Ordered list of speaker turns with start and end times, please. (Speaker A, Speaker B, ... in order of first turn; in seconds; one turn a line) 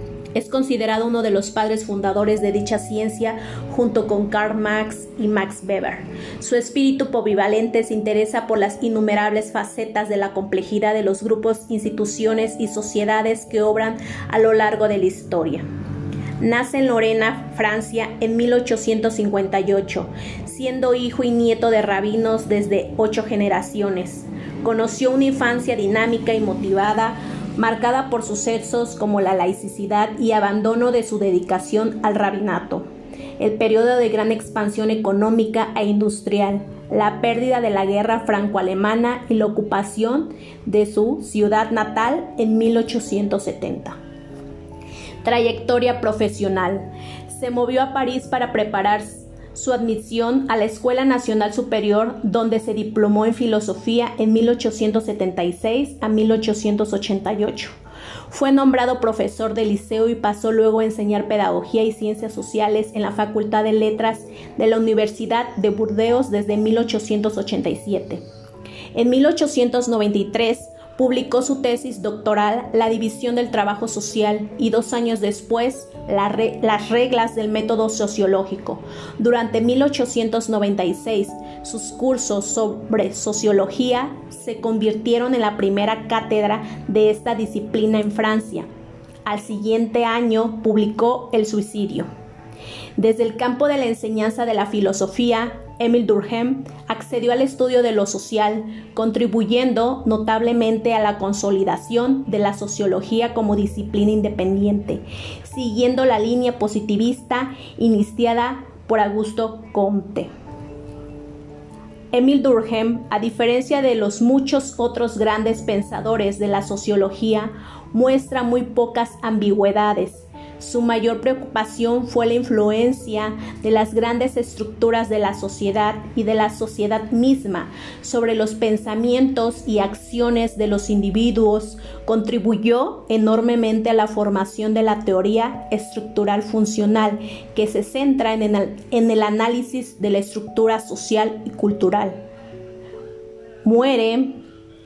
Speaker A: 0.3-15.6
Speaker A: 16.4-32.8
Speaker A: 33.4-44.0
Speaker A: 45.2-57.7
Speaker A: 58.3-68.2
Speaker A: 68.9-88.7
Speaker A: 89.2-92.1
Speaker A: 93.0-110.3
Speaker A: 112.1-142.2
Speaker A: 143.6-144.4